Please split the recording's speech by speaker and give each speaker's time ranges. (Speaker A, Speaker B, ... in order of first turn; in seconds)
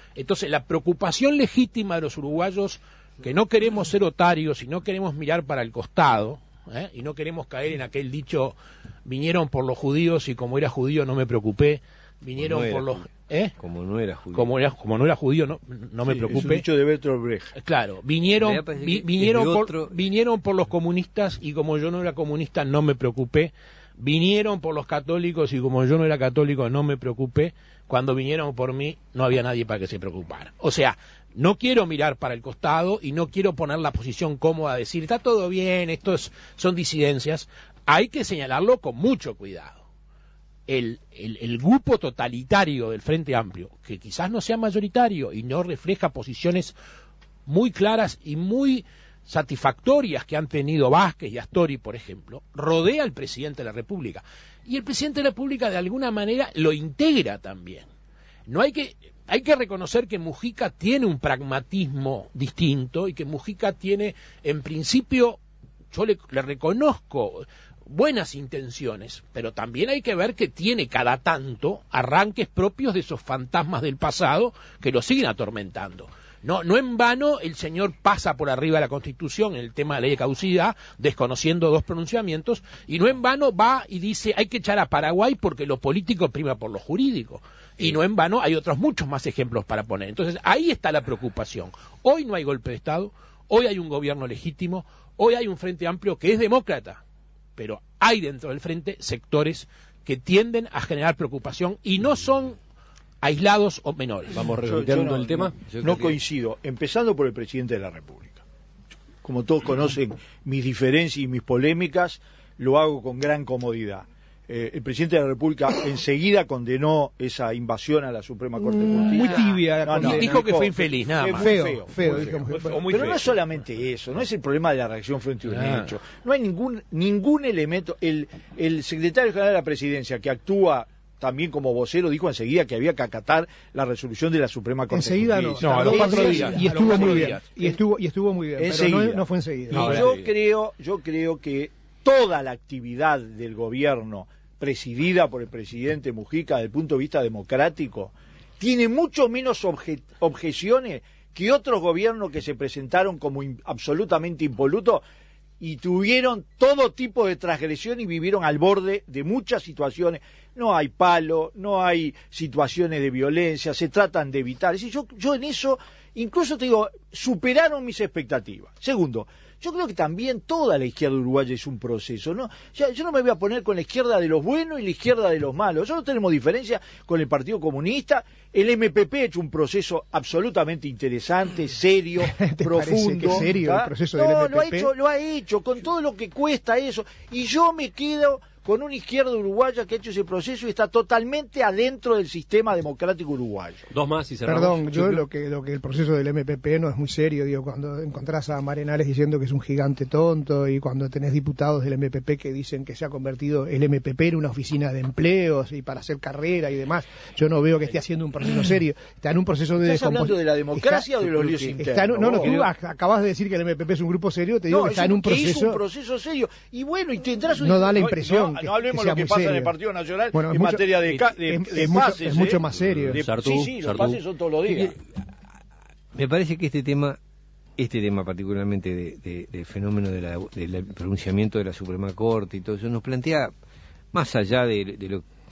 Speaker A: 0.1-13.5, 14.3-16.6, 17.5-39.8, 40.7-46.7, 47.5-57.9, 58.5-65.4, 65.9-97.0, 97.6-102.6, 103.2-104.5, 119.0-123.4, 125.5-125.9, 135.6-137.5, 139.8-140.3
Speaker B: 12.4-13.1, 13.6-14.5, 18.3-19.9, 105.7-106.2, 224.7-224.9, 226.1-227.2, 227.8-233.5, 234.1-235.2
Speaker C: 16.1-17.5, 104.7-108.4, 109.2-137.7, 138.6-155.0, 155.6-193.9, 209.8-212.6, 214.7-225.0
Speaker D: 104.3-105.5, 193.9-195.2, 222.9-224.2
Speaker E: 118.5-120.5, 121.4-122.9, 134.9-139.9, 182.2-184.9, 194.4-215.8, 217.5-219.8, 220.3-223.3